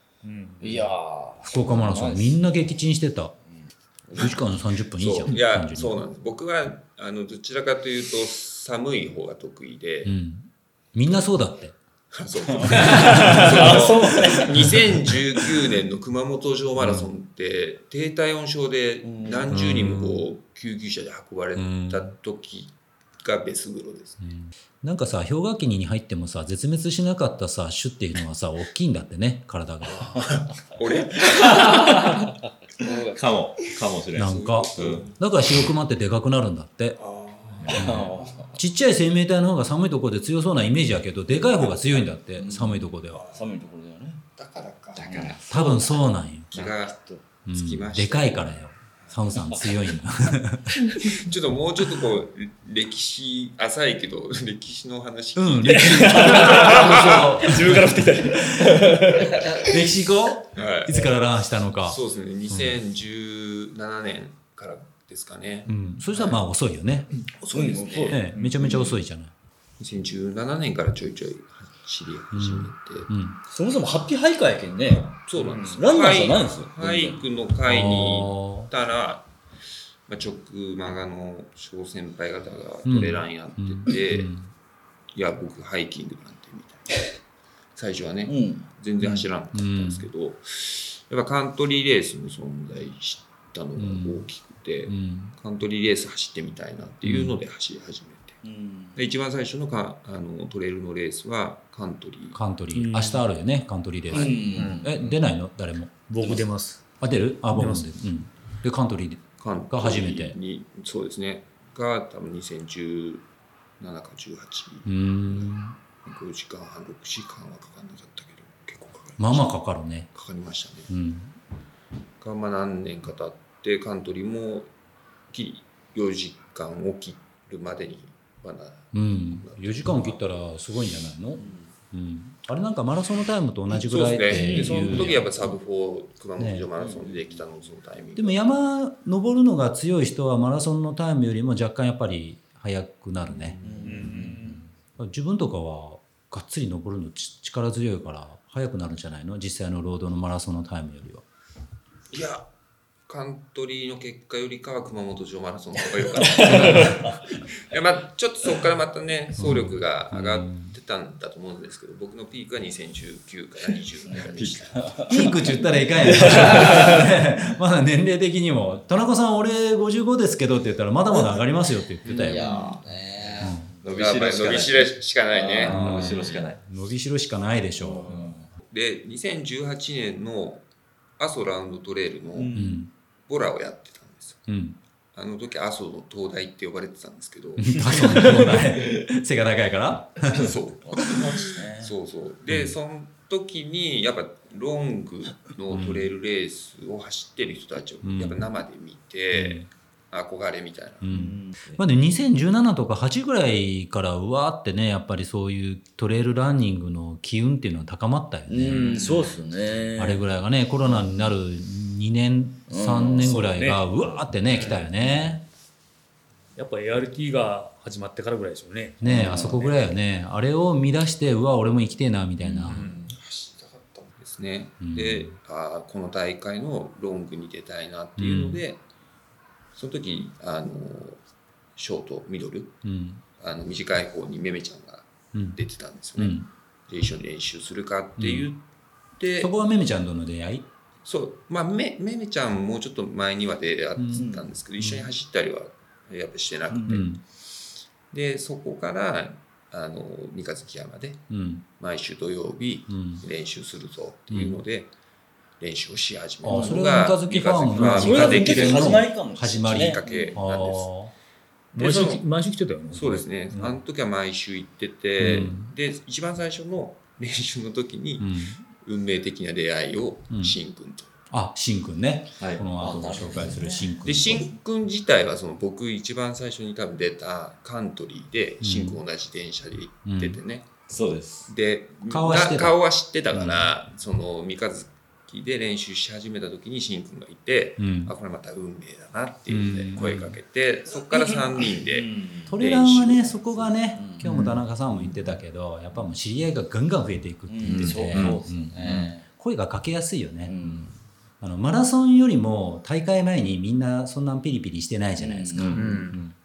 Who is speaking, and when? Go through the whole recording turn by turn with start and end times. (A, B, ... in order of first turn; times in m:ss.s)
0:00.2-0:00.8 A
0:00.6-0:02.4 B
0:01.4-0:03.3 C
0:04.1-0:04.3 B
0:04.1-0:06.0 C
0:05.0-0:10.1 D
0:10.0-0:11.8 C
0:12.1-0:24.2 D
0:12.5-0:14.7 B
0:12.7-0:13.6 C
0:16.8-0:17.1 C
0:19.0-0:19.5 B
0:19.5-0:20.2 C
0:21.6-0:22.1 C
0:24.2-0:30.3 C
0:29.9-0:32.2 D
0:31.5-0:32.2 E
0:32.8-0:33.1 D
0:33.1-0:35.0 E
0:34.2-0:37.0 C
0:34.2-0:35.1 D
0:37.0-0:38.5 D
0:37.6-0:37.9 E
0:37.7-0:38.5 B
0:37.7-0:43.2 C
0:41.6-0:42.0 D
0:42.4-0:44.2 B
0:43.1-0:43.5 D
0:44.4-0:45.4 D
0:45.0-0:45.4 E
0:45.0-0:47.2 B
0:45.5-0:46.6 C
0:46.5-0:49.4 D
0:47.5-0:50.9 C
0:51.0-0:57.6 D
0:55.3-0:59.0 C
0:55.6-0:59.4 A
0:59.0-0:59.6 B
0:59.6-1:02.8 C
1:00.5-1:01.1 D
1:01.8-1:06.4 D
1:05.6-1:07.1 C
1:07.2-1:08.8 D
1:07.5-1:08.9 B
1:08.1-1:09.3 C
1:09.8-1:13.1 D
1:12.3-1:13.4 C
1:13.5-1:17.2 B
1:15.1-1:19.3 D
1:15.4-1:15.8 A
1:17.6-1:18.7 C
1:20.1-1:24.3 D
1:22.8-1:24.5 C
1:25.1-1:27.1 D
1:27.7-1:38.4 D
1:28.2-1:28.6 B
1:29.0-1:30.1 C
1:33.8-1:34.2 C
1:34.9-1:35.3 C
1:37.0-1:37.4 C
1:38.4-1:39.0 B
1:39.0-1:42.4 D
1:42.3-1:46.3 C
1:42.7-1:43.2 A
1:44.1-1:44.9 B
1:44.5-1:44.9 A
1:46.1-1:46.8 A
1:47.0-1:50.4 C
1:47.5-1:47.9 A
1:49.4-1:53.2 D
1:53.8-1:59.6 D
1:54.8-1:55.7 C
1:59.2-2:00.1 C
2:00.1-2:00.9 D
2:00.9-2:01.3 C
2:02.2-2:04.7 D
2:05.3-2:10.2 D
2:08.9-2:15.4 C
2:13.7-2:18.4 D
2:16.4-2:16.7 C
2:16.8-2:17.1 B
2:18.2-2:23.6 C
2:23.3-2:24.6 D
2:23.6-2:24.6 B
2:23.8-2:24.6 A
2:25.0-2:31.2 C
2:32.1-2:32.5 D
2:33.1-2:45.6 D
2:36.2-2:37.2 B
2:36.6-2:36.9 C
2:39.4-2:40.7 C
2:44.0-2:45.4 B
2:44.3-2:44.7 E
2:45.1-2:52.5 C
2:46.0-2:47.0 B
2:46.1-2:46.4 D
2:46.4-2:46.9 E
2:52.1-2:52.8 D
2:52.1-2:53.7 B
2:53.4-2:53.7 C
2:53.8-2:54.9 E
2:53.9-2:56.4 D
2:55.3-2:56.3 B
2:55.6-2:56.6 E
2:55.7-2:58.2 C
2:57.8-2:58.5 B
2:58.6-3:00.6 D
3:01.2-3:02.7 D
3:02.3-3:02.8 B
3:02.5-3:02.9 C
3:03.2-3:04.5 D
3:04.5-3:04.8 C
3:05.1-3:08.8 D
3:07.6-3:10.5 C
3:10.3-3:21.1 D
3:10.8-3:11.9 B
3:12.5-3:12.7 C
3:15.7-3:16.0 C
3:18.0-3:18.4 C
3:19.3-3:19.7 C
3:21.0-3:29.3 C
3:21.1-3:21.8 B
3:28.5-3:30.2 B
3:28.7-3:29.3 D
3:30.0-3:35.4 C
3:30.8-3:31.3 B
3:32.7-3:33.4 B
3:33.2-3:33.8 A
3:34.5-3:34.9 D
3:36.6-3:39.7 A
3:39.0-3:42.8 C
3:39.0-3:39.7 B
3:42.4-3:42.9 B
3:42.7-3:43.0 A
3:42.7-3:48.8 D
3:44.8-3:45.4 C
3:48.2-3:48.6 C
3:49.7-3:51.2 D
3:51.8-3:52.8 D
3:52.8-3:53.2 C
3:53.4-3:58.6 D
3:56.2-3:56.5 C
3:58.2-3:58.5 C
3:59.2-3:59.5 D
3:59.4-4:00.7 C
4:01.0-4:07.2 D
4:04.0-4:05.1 C
4:04.1-4:04.5 B
4:06.7-4:07.0 B
4:06.9-4:07.2 C
4:08.1-4:14.9 D
4:11.3-4:11.6 C
4:12.9-4:13.2 C
4:14.3-4:14.6 C
4:15.6-4:19.1 D
4:16.4-4:21.1 C
4:16.5-4:16.8 B
4:17.8-4:20.4 B
4:19.7-4:20.9 D
4:21.7-4:22.2 D
4:21.7-4:23.7 A
4:22.9-4:31.1 D
4:25.2-4:25.7 C
4:28.2-4:28.6 C
4:30.3-4:30.6 C
4:31.3-4:34.5 C
4:32.4-4:32.6 E
4:32.8-4:34.0 B
4:34.0-4:40.7 D
4:38.6-4:39.0 C
4:40.0-4:40.4 C
4:40.9-4:41.5 E
4:41.5-4:53.7 D
4:42.1-4:42.8 C
4:43.3-4:43.7 C
4:47.8-4:48.1 C
4:49.5-4:50.4 C
4:51.9-4:52.5 B
4:52.5-5:00.7 C
4:53.9-4:54.5 B
4:57.5-4:59.2 B
4:57.6-4:58.4 E
5:00.4-5:00.9 B
5:01.4-5:06.0 C
5:05.2-5:06.0 B
5:05.7-5:06.3 E
5:05.8-5:06.2 A